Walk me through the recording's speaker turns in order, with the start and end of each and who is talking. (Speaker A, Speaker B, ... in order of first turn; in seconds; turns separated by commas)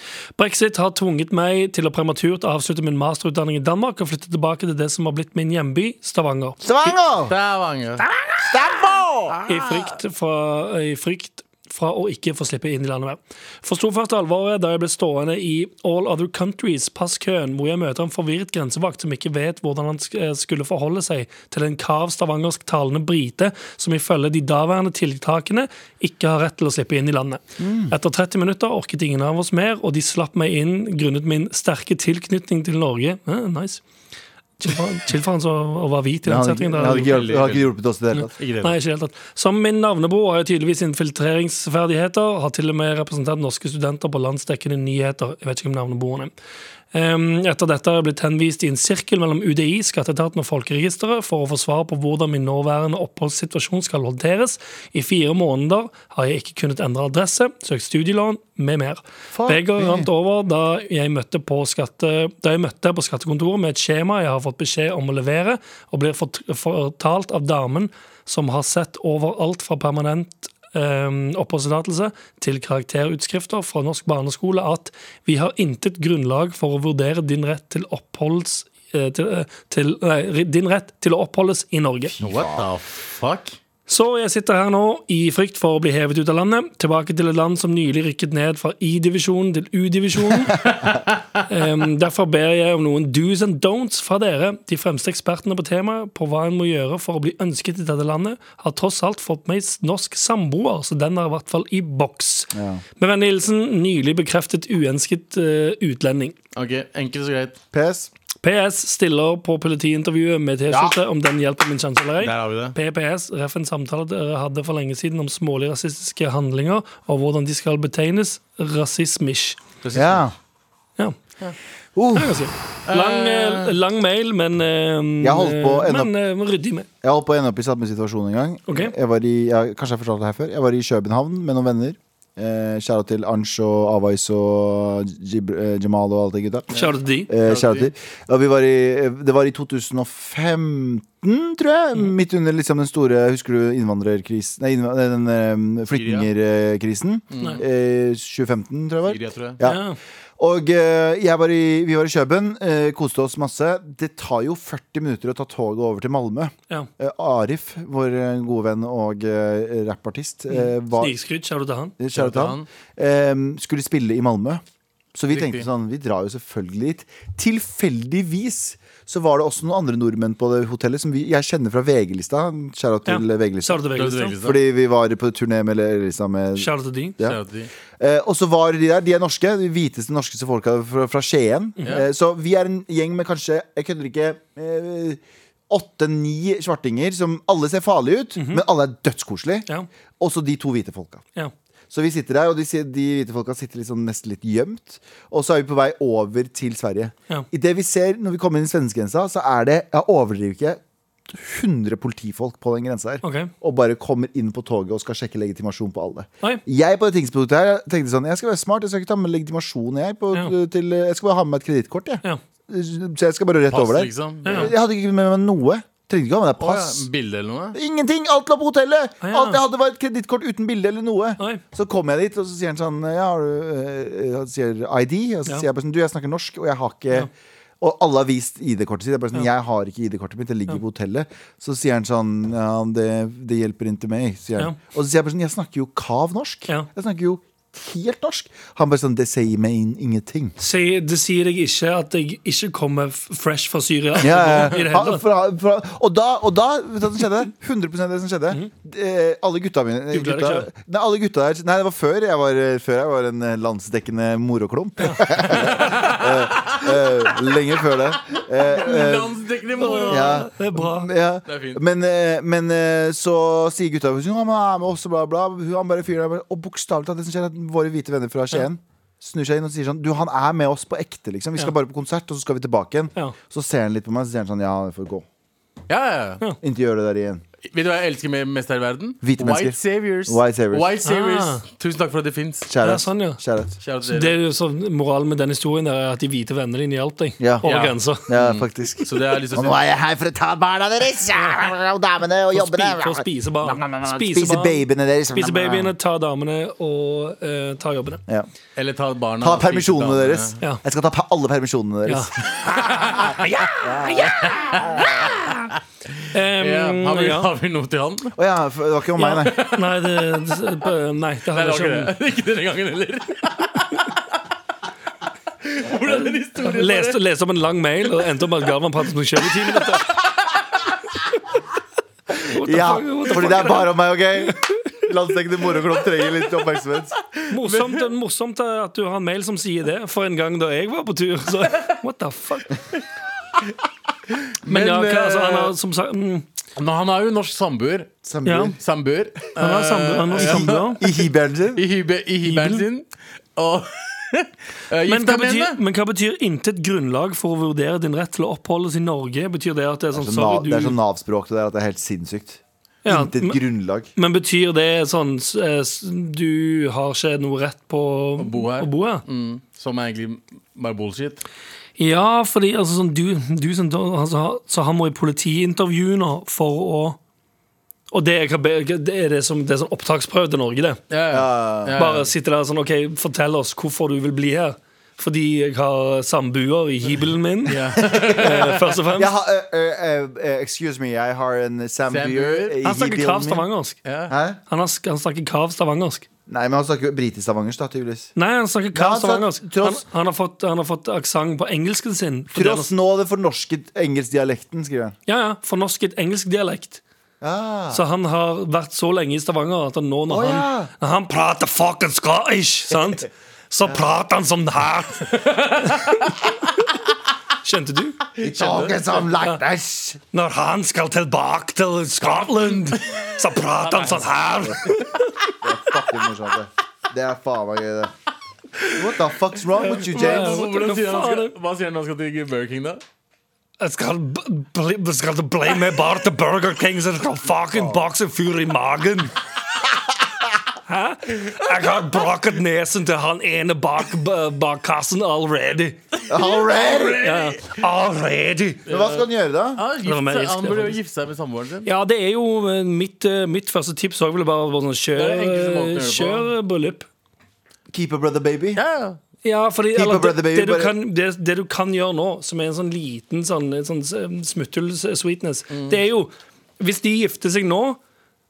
Speaker A: 0.4-7.0, Speaker B: 6.6-7.3, Speaker C: 7.3-8.0, Speaker B: 8.0-9.9, Speaker A: 9.4-33.8, Speaker B: 27.6-27.9, Speaker A: 34.6-37.2, Speaker B: 36.2-38.3, Speaker C: 36.9-37.7, Speaker A: 38.1-46.3, Speaker C: 38.4-38.7, Speaker A: 46.9-82.1, Speaker B: 59.3-60.1, Speaker B: 82.1-82.7, Speaker C: 82.2-83.6, Speaker A: 83.9-90.7, Speaker A: 91.5-106.3, Speaker B: 102.5-102.8, Speaker C: 106.5-107.6, Speaker B: 107.7-108.1, Speaker A: 108.4-119.6, Speaker B: 110.7-111.0, Speaker C: 112.2-112.7, Speaker C: 119.8-120.3, Speaker B: 119.9-120.3, Speaker B: 121.9-122.4, Speaker A: 122.1-126.9, Speaker C: 122.8-123.7, Speaker B: 125.2-126.1, Speaker B: 127.0-149.8, Speaker A: 128.7-128.9, Speaker A: 136.7-137.3, Speaker C: 137.4-137.9, Speaker C: 145.9-146.3, Speaker C: 147.3-147.6, Speaker C: 149.1-149.6, Speaker A: 149.6-150.0, Speaker B: 150.4-161.1, Speaker A: 160.5-161.9, Speaker B: 162.0-164.6, Speaker C: 162.1-162.7, Speaker B: 165.1-173.8, Speaker C: 165.3-165.7, Speaker A: 173.1-174.4, Speaker C: 173.9-174.6, Speaker B: 174.4-177.4, Speaker A: 176.6-177.2, Speaker C: 177.2-177.7, Speaker B: 178.0-189.7, Speaker A: 188.3-188.6, Speaker B: 190.2-191.2, Speaker B: 191.9-217.1, Speaker A: 203.2-203.5, Speaker C: 213.7-214.7, Speaker A: 214.4-214.7, Speaker C: 216.6-217.8, Speaker B: 217.7-240.5, Speaker A: 219.2-219.6, Speaker A: 240.6-245.2, Speaker B: 244.2-259.4, Speaker A: 250.1-250.7, Speaker A: 255.0-255.5, Speaker C: 255.5-257.1, Speaker C: 258.3-260.4, Speaker A: 259.8-261.1, Speaker B: 260.1-275.2, Speaker C: 261.5-261.8, Speaker C: 275.9-276.4, Speaker B: 276.6-277.4, Speaker C: 277.7-282.7, Speaker B: 279.2-280.9, Speaker A: 281.0-281.6, Speaker B: 282.7-283.8, Speaker A: 282.8-283.4, Speaker C: 283.8-284.4, Speaker A: 284.0-288.3, Speaker B: 287.4-287.7, Speaker C: 287.6-289.8, Speaker B: 288.3-295.9, Speaker A: 292.5-298.2, Speaker C: 298.8-300.6, Speaker B: 299.4-305.3, Speaker C: 302.5-303.3, Speaker C: 304.1-305.6, Speaker A: 306.3-307.5, Speaker C: 306.6-308.3, Speaker B: 308.4-309.6, Speaker A: 309.2-312.1, Speaker C: 309.4-309.9, Speaker C: 311.5-314.0, Speaker C: 315.6-317.2, Speaker A: 316.6-320.2, Speaker C: 320.0-320.8, Speaker B: 322.4-327.1, Speaker A: 322.4-323.9, Speaker C: 327.3-328.0, Speaker A: 327.5-332.8, Speaker C: 334.6-335.7, Speaker A: 334.6-336.4, Speaker C: 336.8-338.2, Speaker B: 338.2-338.8, Speaker A: 338.4-338.7, Speaker C: 338.8-345.8, Speaker A: 339.6-341.0, Speaker B: 340.4-341.8, Speaker A: 342.4-342.8, Speaker A: 345.1-350.9, Speaker B: 350.1-354.1, Speaker A: 353.0-353.6, Speaker A: 354.1-359.2, Speaker C: 358.4-361.4, Speaker A: 362.0-367.2, Speaker A: 368.1-371.0, Speaker C: 371.1-372.3, Speaker B: 371.3-372.0, Speaker A: 371.9-379.3, Speaker C: 377.7-378.9, Speaker B: 378.0-383.7, Speaker C: 382.1-382.8, Speaker A: 382.8-384.0, Speaker C: 384.0-384.3, Speaker B: 384.3-384.6, Speaker A: 384.7-386.2, Speaker B: 386.5-388.3, Speaker A: 388.4-392.9, Speaker B: 388.9-390.0, Speaker B: 392.5-395.1, Speaker A: 395.3-397.0, Speaker B: 397.4-398.0, Speaker A: 397.9-406.2, Speaker B: 400.3-400.9, Speaker C: 405.4-405.9, Speaker A: 407.6-408.2, Speaker B: 408.4-410.2, Speaker C: 408.4-409.3, Speaker A: 410.3-415.3, Speaker B: 415.6-418.1, Speaker B: 418.9-420.6, Speaker A: 419.8-421.5, Speaker C: 420.1-423.0, Speaker A: 423.8-429.3, Speaker B: 427.7-428.0, Speaker A: 430.9-436.0, Speaker B: 436.3-437.3, Speaker C: 436.5-437.8, Speaker A: 437.2-438.8, Speaker C: 438.9-441.9, Speaker B: 438.9-439.8, Speaker A: 440.0-441.0, Speaker A: 441.8-447.1, Speaker C: 445.1-446.5, Speaker B: 447.9-448.8, Speaker C: 448.8-449.2, Speaker A: 449.4-458.0, Speaker B: 449.9-450.9